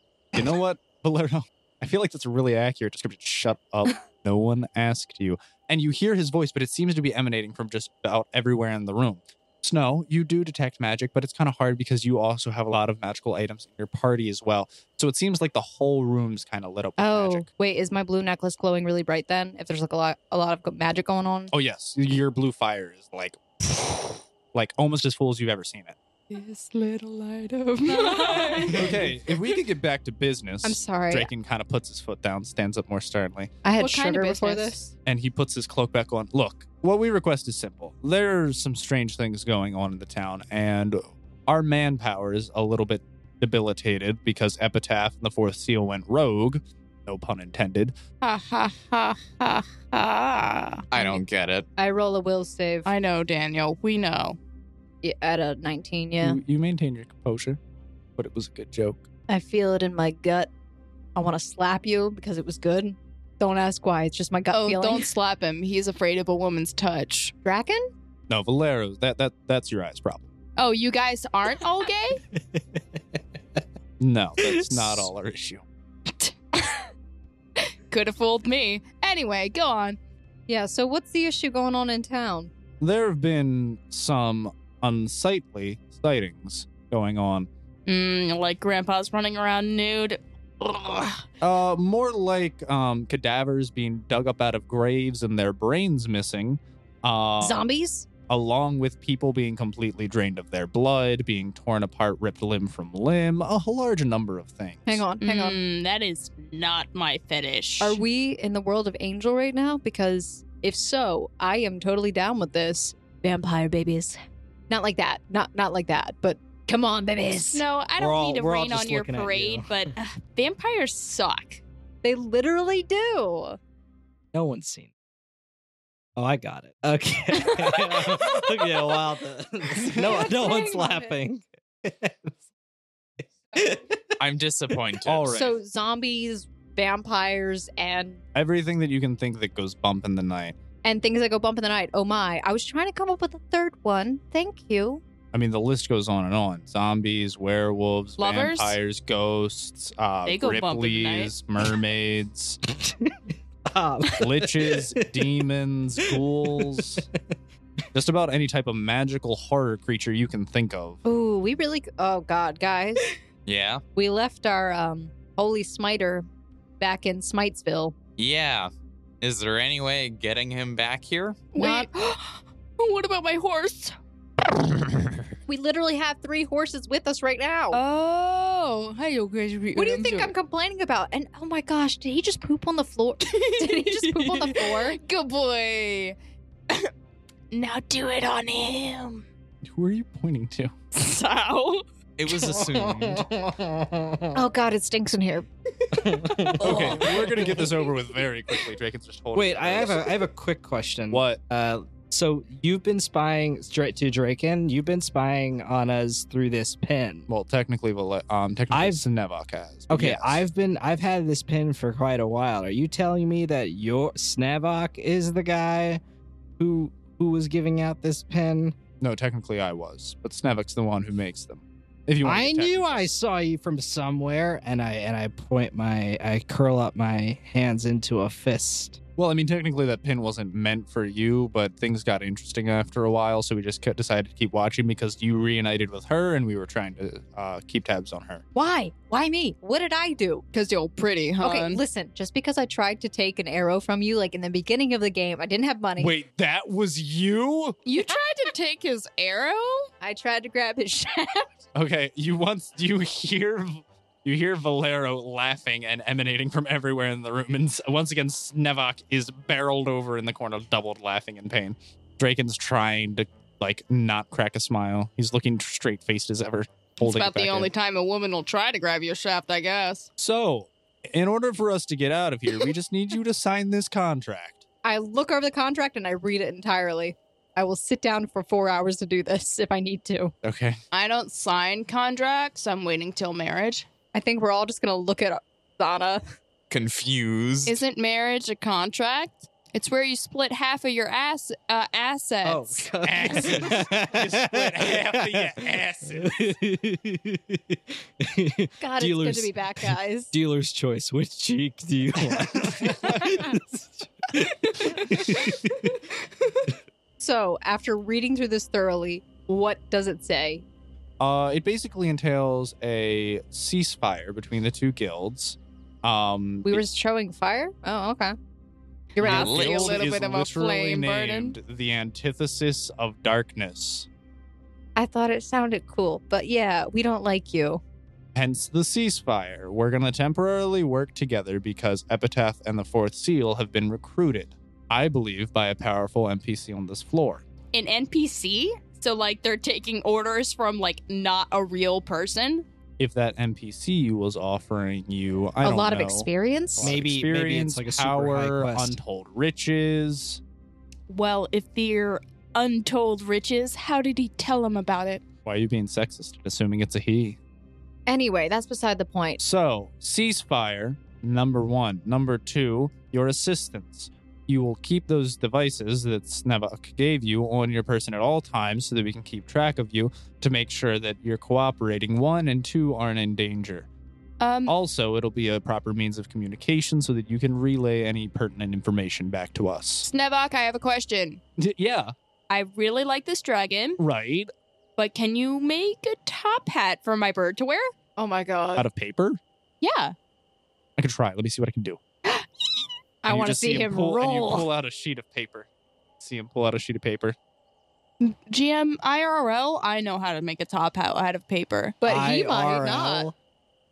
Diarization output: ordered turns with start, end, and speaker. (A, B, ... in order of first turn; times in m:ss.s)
0:00.3-0:17.5 A
0:17.0-0:21.5 B
0:21.5-0:26.0 A
0:26.3-0:29.0 C
0:27.9-0:28.9 B
0:28.7-0:33.5 A
0:30.6-0:31.3 B
0:33.6-0:34.8 B
0:33.8-0:34.8 C
0:35.0-0:48.0 A
0:48.2-0:50.9 C
0:50.9-0:51.7 D
0:50.9-0:51.2 B
0:51.8-0:52.9 B
0:52.8-0:54.4 C
0:55.0-0:56.4 B
0:56.2-0:57.6 A
0:58.2-0:59.0 A
0:59.3-1:00.5 B
1:01.2-1:05.1 B
1:04.5-1:07.3 C
1:07.4-1:07.9 B
1:08.3-1:10.2 A
1:10.6-1:12.2 C
1:12.4-1:13.2 E
1:14.0-1:15.6 A
1:14.4-1:15.1 E
1:16.2-1:16.8 C
1:17.6-1:20.0 C
1:20.5-1:22.5 B
1:22.8-1:27.5 A
1:27.9-1:31.2 C
1:31.4-1:37.6 A
1:37.4-1:38.1 B
1:38.3-1:45.0 A
1:44.9-1:45.6 B
1:45.2-1:48.0 C
1:47.8-1:57.6 B
1:57.5-2:01.6 C
1:58.0-1:59.7 E
2:02.0-2:03.6 B
2:04.3-2:04.9 E
2:06.2-2:12.4 E
2:07.7-2:08.2 B
2:09.8-2:11.2 B
2:13.5-2:14.0 E
2:14.2-2:15.4 D
2:15.0-2:15.6 A
2:15.3-2:18.2 B
2:18.3-2:20.6 A
2:20.8-2:25.0 B
2:25.3-2:32.6 A
2:28.2-2:28.8 C
2:30.3-2:31.3 C
2:32.8-2:35.3 E
2:34.2-2:37.1 A
2:36.1-2:37.0 E
2:37.9-2:41.0 A
2:41.0-2:43.2 B
2:43.5-2:43.8 D
2:44.0-2:46.3 B
2:46.8-2:48.0 B
2:48.2-2:48.7 D
2:49.2-2:51.5 D
2:51.5-2:54.0 C
2:51.6-2:51.9 B
2:55.5-2:57.8 B
2:57.7-3:00.3 C
2:59.8-3:05.0 B
3:03.2-3:06.2 C
3:07.5-3:09.2 C
3:09.6-3:10.7 A
3:10.9-3:11.8 C
3:12.2-3:13.3 D
3:12.3-3:14.4 E
3:14.3-3:15.5 B
3:16.0-3:17.7 E
3:16.6-3:20.2 A
3:16.6-3:17.2 C
3:19.4-3:27.3 E
3:21.1-3:21.4 A
3:27.3-3:30.4 A
3:28.7-3:29.0 E
3:29.9-3:36.0 E
3:36.6-3:38.8 E
3:39.0-3:43.1 A
3:42.2-3:49.0 E
3:49.2-3:58.4 A
3:58.6-4:00.4 B
4:00.5-4:01.8 C
4:01.4-4:06.2 B
4:06.0-4:07.8 A
4:07.8-4:09.9 C
4:10.0-4:11.5 B
4:11.7-4:27.7 A
4:27.0-4:30.1 C
4:30.2-4:34.6 A
4:34.8-4:40.3 B
4:40.4-4:40.8 A
4:40.9-4:43.9 C
4:44.1-4:46.2 B
4:46.7-4:47.8 D
4:47.7-4:52.9 C
4:52.4-4:55.5 E
4:53.0-4:56.4 A
4:56.1-5:05.9 E
4:58.8-5:00.3 B
5:02.3-5:03.4 A
5:07.2-5:10.6 B
5:11.2-5:16.9 A
5:16.6-5:18.4 B
5:19.2-5:20.0 B
5:19.2-5:21.6 C
5:19.2-5:19.9 D
5:19.2-5:24.1 A
5:25.0-5:27.8 B
5:28.4-5:37.4 A
5:37.7-5:42.6 C
5:43.0-5:50.4 A
5:45.6-5:47.0 B
5:46.8-5:49.0 E
5:51.1-5:55.2 C
5:55.4-5:57.4 A
5:58.1-5:59.4 B
5:59.4-6:13.9 A
6:14.4-6:14.8 C
6:14.7-6:20.1 A
6:20.1-6:21.4 C
6:21.6-6:22.1 A
6:22.5-6:24.0 C
6:24.0-6:24.5 A
6:25.0-6:27.9 C
6:28.2-6:28.9 B
6:28.8-6:29.4 A
6:29.8-6:30.1 C
6:31.0-6:32.0 A
6:32.3-6:32.9 C
6:33.2-6:34.5 B
6:33.3-6:35.7 A
6:34.2-6:34.6 C
6:36.2-6:37.4 A
6:38.2-6:42.0 C
6:42.0-6:43.3 B
6:42.0-6:43.3 E